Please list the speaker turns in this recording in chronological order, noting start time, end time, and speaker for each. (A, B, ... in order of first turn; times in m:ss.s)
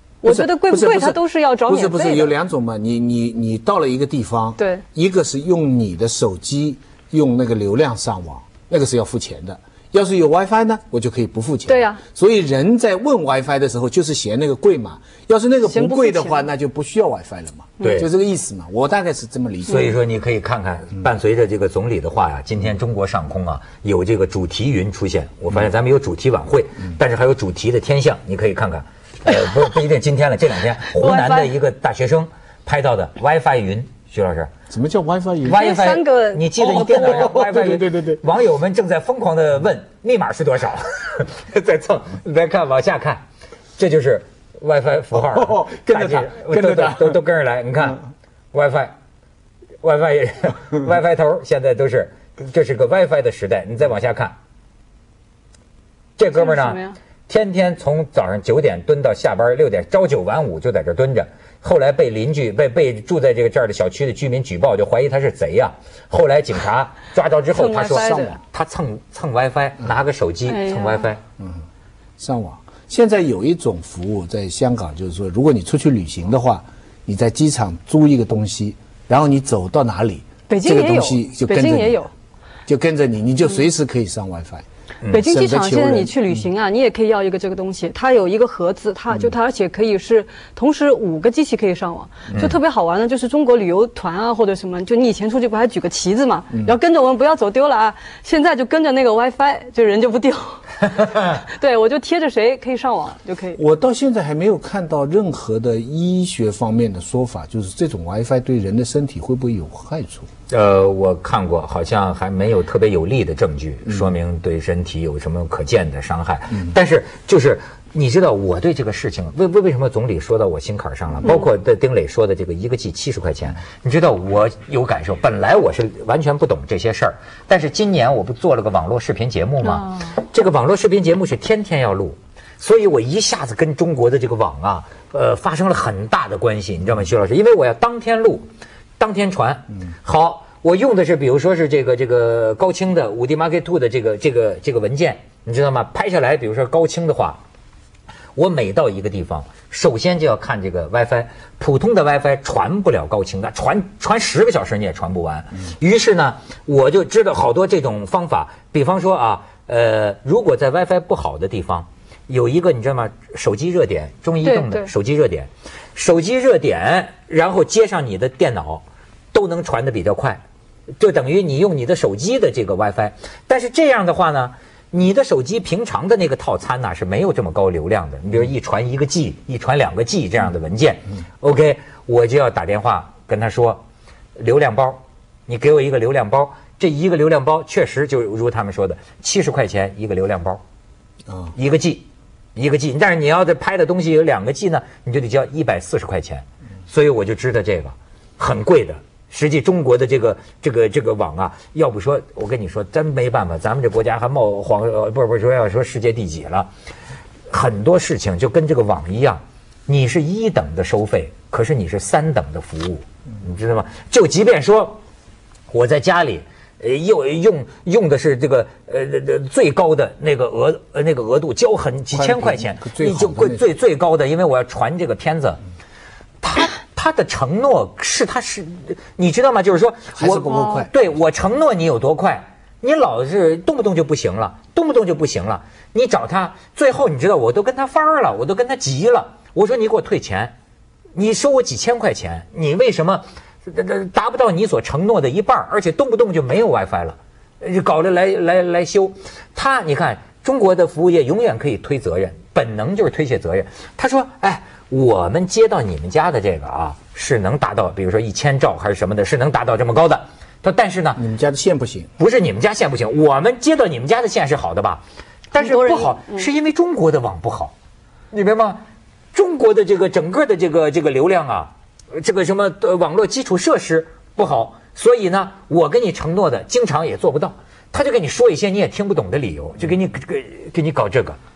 0:00.2-0:02.3 A
0:00.2-0:19.9 B
0:04.6-0:04.8 A
0:11.7-0:12.0 A
0:15.6-0:16.4 A
0:17.8-0:18.1 C
0:19.7-0:34.5 C
0:30.9-0:31.5 A
0:34.7-0:35.6 B
0:35.4-0:43.2 C
0:35.5-0:36.5 A
0:36.6-0:38.2 B
0:43.8-0:48.0 C
0:45.1-0:47.2 B
0:48.5-0:48.9 C
0:49.8-0:54.4 C
0:56.2-1:11.2 C
0:56.3-0:57.0 A
1:07.5-1:08.4 A
1:07.9-1:08.4 B
1:10.4-1:11.0 A
1:11.4-1:11.6 B
1:12.2-1:22.0 B
1:20.5-1:22.1 A
1:22.7-1:26.1 B
1:25.1-1:43.6 A
1:43.6-1:50.3 B
1:50.5-2:18.4 C
2:09.7-2:09.9 A
2:19.0-2:27.4 C
2:28.4-2:50.4 C
2:44.4-2:44.9 A
2:51.0-3:03.8 C
3:04.4-3:10.6 C
3:11.6-3:26.7 C
3:27.5-3:35.0 C
3:35.7-3:45.6 C
3:42.1-3:43.7 B
3:46.4-4:00.5 C
3:50.2-3:51.0 B
4:01.1-4:21.2 C
4:21.2-4:22.1 B
4:22.2-4:27.7 C
4:25.6-4:26.5 A
4:28.3-4:28.8 C
4:29.3-4:41.4 C